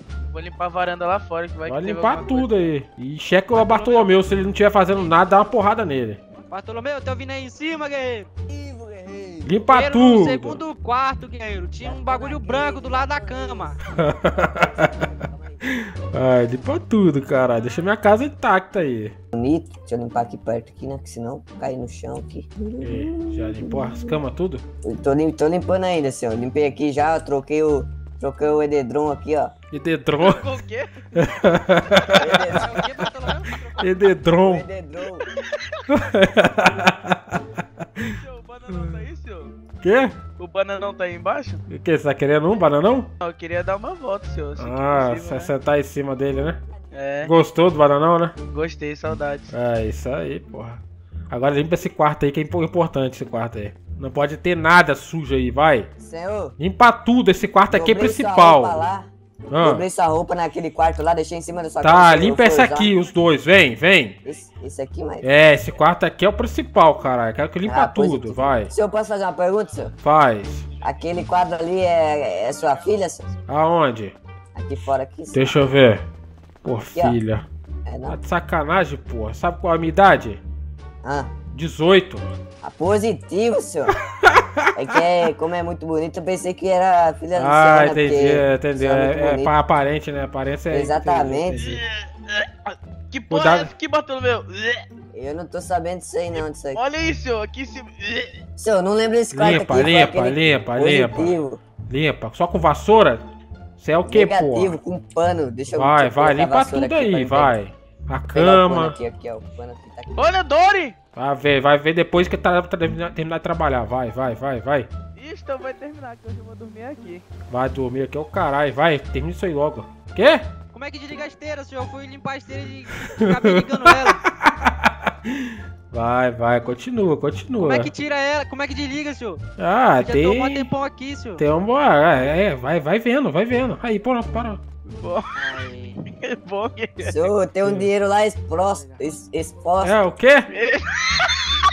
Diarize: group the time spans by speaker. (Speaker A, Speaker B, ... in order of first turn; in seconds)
Speaker A: 0.3-2.5, 30.2-31.1, 38.2-39.5, 40.4-41.6, 43.2-45.5, 46.9-47.3, 48.5-49.5, 91.6-94.8, 96.7-98.4, 110.1-111.0, 115.2-117.2, 134.9-137.3, 140.5-141.6
Speaker B: 1.7-6.2, 9.4-10.6, 13.9-15.0, 15.6-19.1, 22.8-24.6, 29.7-30.4, 31.2-32.5, 33.8-34.7, 35.9-37.4, 38.7-39.0, 39.8-40.2, 41.7-43.1, 44.6-46.6, 47.2-48.3, 49.5-50.8, 51.3-55.9, 56.6-58.8, 59.5-59.8, 61.8-64.2, 65.2-68.7, 70.0-70.7, 73.5-74.2, 75.3-76.0, 76.6-77.5, 78.1-80.4, 81.5-82.2, 84.2-85.0, 87.3-91.8, 93.3-93.7, 99.3-101.3, 101.9-103.2, 103.8-104.8, 105.7-109.0, 111.2-114.9, 117.5-120.5, 123.0-127.9, 129.6-130.7, 131.4-134.6, 137.6-137.9, 139.8-140.5
Speaker C: 3.5-5.4, 6.5-8.3, 9.7-13.8, 32.5-33.7, 120.7-124.2, 127.6-129.4, 130.0-131.4, 135.3-136.0, 138.6-139.0
Speaker D: 8.5-9.6, 11.8-13.8, 14.3-15.6, 19.3-24.2, 24.8-29.5, 32.1-32.8, 34.4-35.2, 56.0-56.5, 57.7-59.1, 59.6-62.9, 64.2-65.3, 67.7-69.9, 70.8-73.3, 74.5-75.7, 77.9-78.2, 81.0-81.3, 82.6-83.9, 84.8-89.5, 90.7-91.6, 95.1-96.8, 98.6-101.6, 104.1-107.6, 108.3-110.3, 137.0-140.0